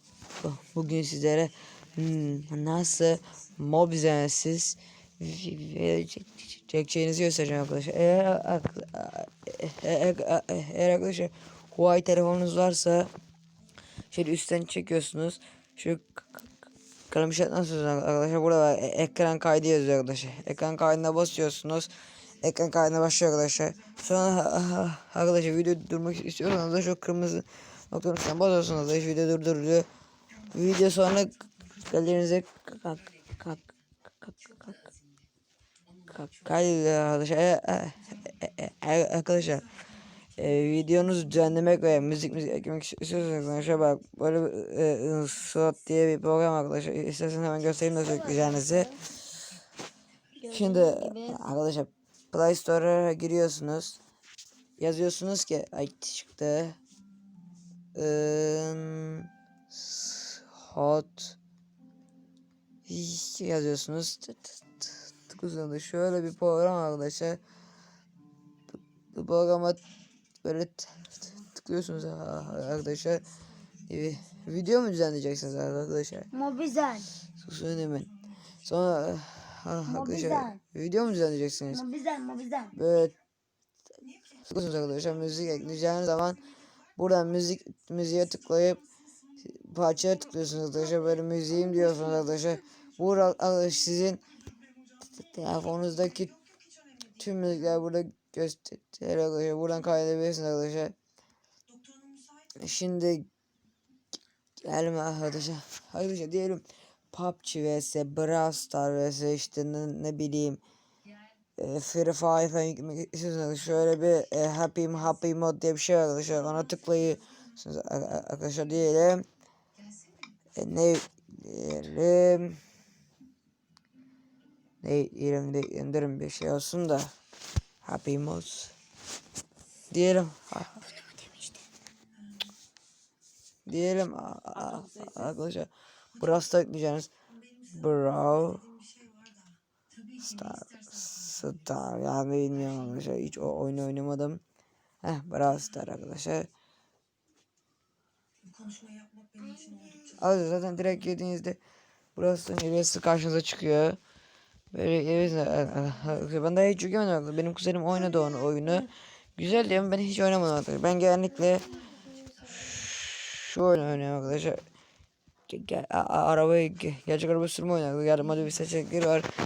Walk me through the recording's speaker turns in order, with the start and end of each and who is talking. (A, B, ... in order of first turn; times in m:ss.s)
0:00.4-0:13.1 A
0:14.1-0:16.5 A
0:17.1-0:29.9 A
0:30.5-0:34.9 A
0:36.1-0:39.7 A
0:40.4-0:49.0 A
0:48.0-0:49.0 B
0:50.4-0:51.4 B
0:50.5-0:54.0 A
0:54.8-0:56.8 A
0:58.0-1:01.4 A
1:02.9-1:07.4 A
1:09.1-1:09.8 A
1:10.4-1:13.3 A
1:13.9-1:16.3 A
1:16.3-1:17.1 B
1:17.4-1:18.1 A
1:18.6-1:21.8 A
1:19.9-1:20.6 B
1:21.7-1:22.7 B
1:22.8-1:23.2 A
1:24.4-1:26.4 A
1:27.0-1:28.8 A
1:29.4-1:34.2 A
1:35.0-1:36.3 A
1:37.2-1:41.0 A
1:42.6-1:43.3 A
1:44.6-1:50.6 A
1:51.6-1:59.2 A
2:00.6-2:02.6 A
2:04.8-2:07.1 A
2:07.8-2:08.8 A
2:09.9-2:10.9 A
2:11.0-2:11.6 B
2:13.7-2:17.1 A
2:17.7-2:18.7 A
2:20.2-2:24.4 A
2:25.0-2:26.5 A
2:29.4-2:29.9 B
2:29.8-2:31.6 A
2:32.2-2:34.0 A
2:34.7-2:41.9 A
2:42.6-2:44.6 A
2:45.5-2:49.3 A